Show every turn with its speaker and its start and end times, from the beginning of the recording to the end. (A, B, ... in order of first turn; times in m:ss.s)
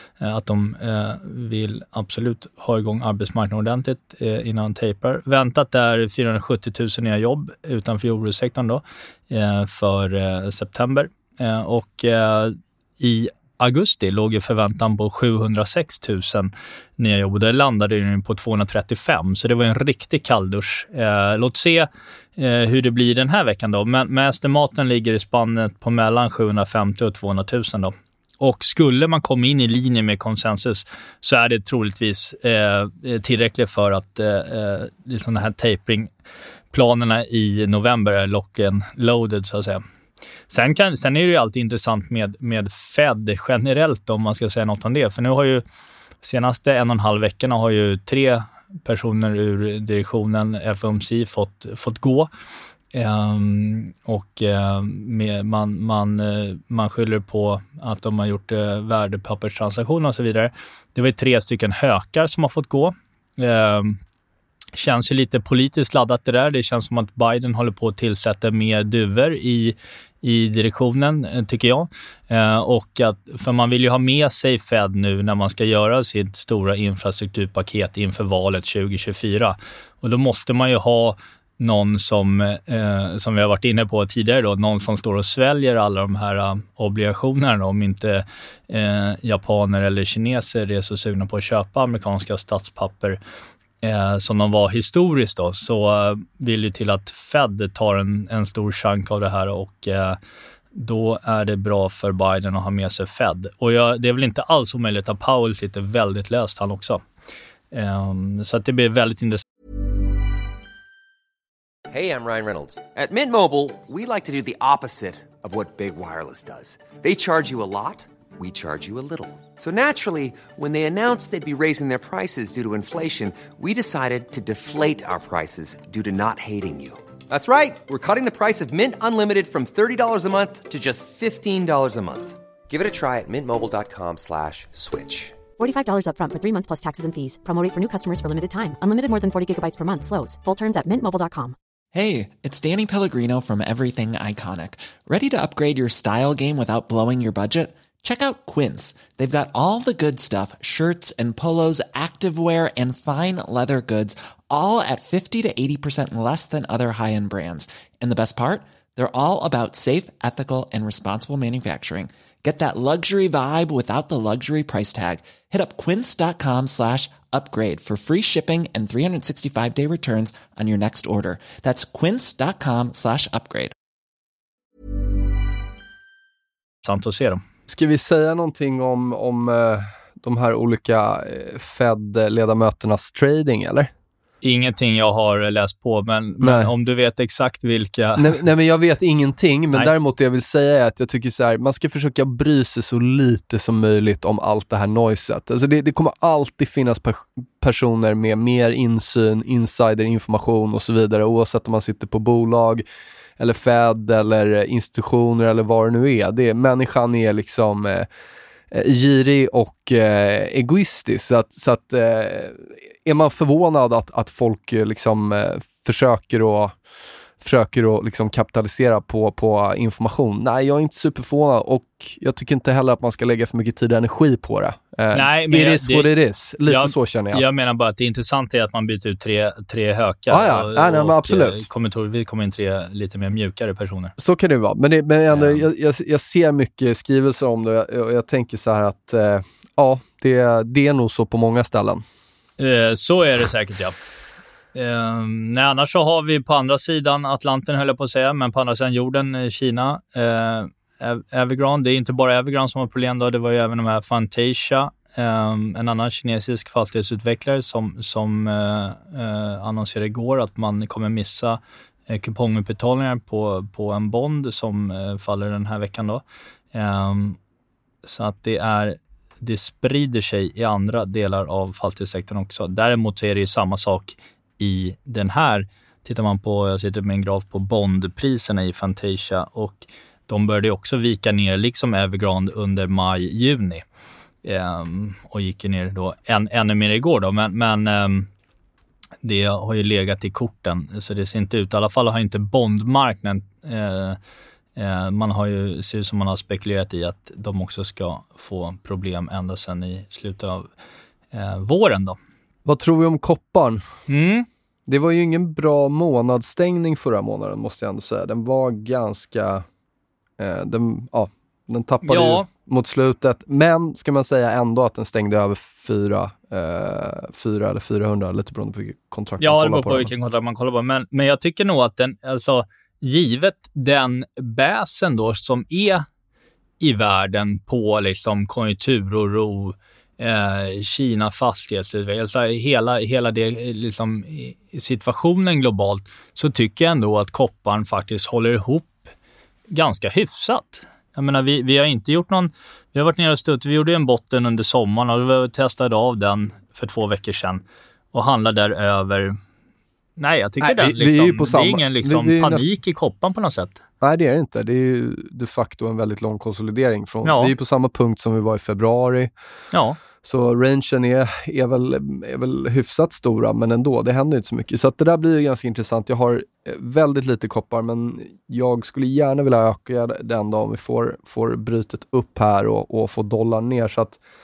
0:00.2-0:36.1 A
0:36.7-0:39.8 A
0:40.5-0:45.6 A
0:46.2-0:52.3 A
0:52.9-1:04.0 A
1:04.8-1:33.2 A
1:33.8-1:40.2 A
1:40.7-1:47.0 A
1:47.7-1:49.4 A
1:51.9-2:15.4 B
2:15.6-2:21.6 C
2:21.9-2:53.7 D
2:56.8-2:57.4 A
2:57.7-3:03.9 E
3:04.4-3:08.4 A
3:06.4-3:06.7 E
3:08.2-3:22.8 E
3:23.4-3:28.1 E
3:28.7-3:36.8 E
3:37.4-3:47.4 E
3:45.1-3:46.1 A
3:46.6-3:54.1 A
3:50.3-3:51.7 E
3:54.2-4:02.0 E
3:55.3-3:55.7 A
4:02.6-4:04.0 A
4:04.8-4:27.4 A
4:28.0-4:43.8 A
4:44.4-4:48.3 A
4:49.2-4:54.2 A
4:54.8-5:00.7 A
5:01.3-5:02.2 A
5:02.6-5:03.8 E
5:04.1-5:04.5 A
5:04.9-5:09.6 E
5:10.4-5:20.1 E
5:12.0-5:12.5 A
5:19.4-5:26.1 A
5:26.8-5:39.1 A
5:39.7-5:49.4 A
5:50.2-5:53.8 A
5:50.6-5:52.7 E
5:54.0-5:59.3 E
5:57.2-5:57.5 A
5:59.7-6:00.0 A
6:00.2-6:14.2 E